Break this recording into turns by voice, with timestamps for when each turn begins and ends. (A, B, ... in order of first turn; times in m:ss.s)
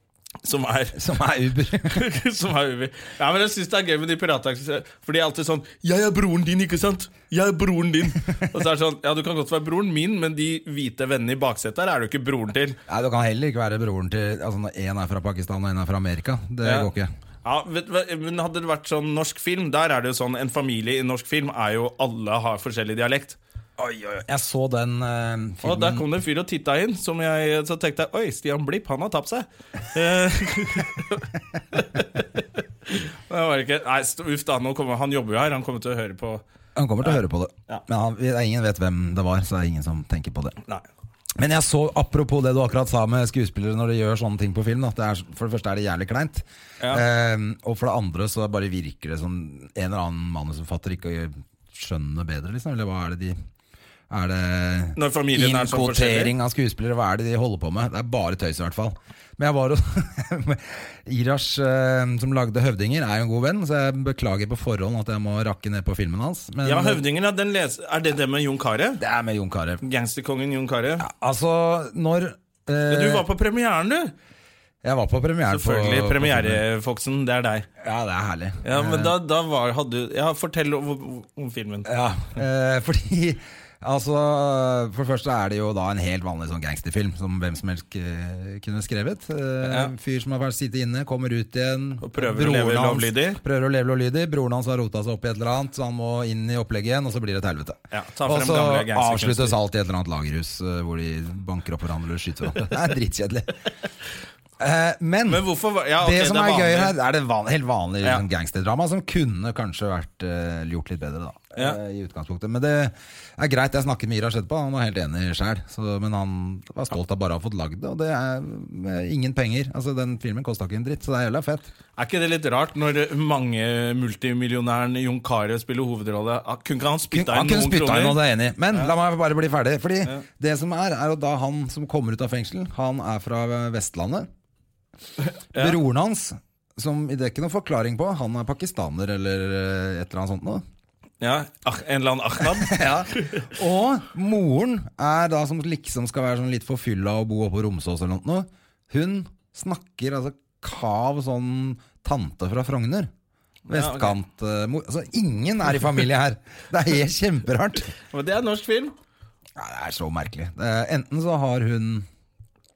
0:00.4-0:01.0 A
0:00.9-0:02.1 B
0:01.9-0:12.8 A
0:12.9-0:17.1 B
0:16.6-0:16.9 A
0:17.4-0:23.4 A
0:23.8-0:26.0 B
0:25.6-0:32.2 A
0:32.9-0:36.4 A
0:36.7-0:40.6 B
0:37.0-0:37.8 A
0:41.4-0:53.4 B
0:54.1-1:07.0 B
0:55.0-0:56.3 A
1:06.6-1:09.0 A
1:09.0-1:09.8 B
1:09.8-1:11.0 A
1:11.0-1:13.2 B
1:12.9-1:14.1 A
1:14.8-1:16.6 B
1:15.5-1:17.7 A
1:17.8-1:19.2 B
1:18.6-1:21.9 A
1:21.8-1:43.6 B
1:29.6-1:29.9 A
1:32.0-1:33.4 A
1:37.9-1:39.6 A
1:44.6-1:45.4 B
1:45.3-1:46.9 A
1:46.0-2:01.7 B
2:02.0-2:08.9 A
2:07.1-2:14.3 B
2:15.2-2:15.8 A
2:15.5-2:20.6 B
2:21.2-2:23.4 A
2:22.4-2:33.1 B
2:33.7-2:34.2 A
2:33.7-2:37.9 B
2:38.1-2:38.9 A
2:39.6-2:42.1 B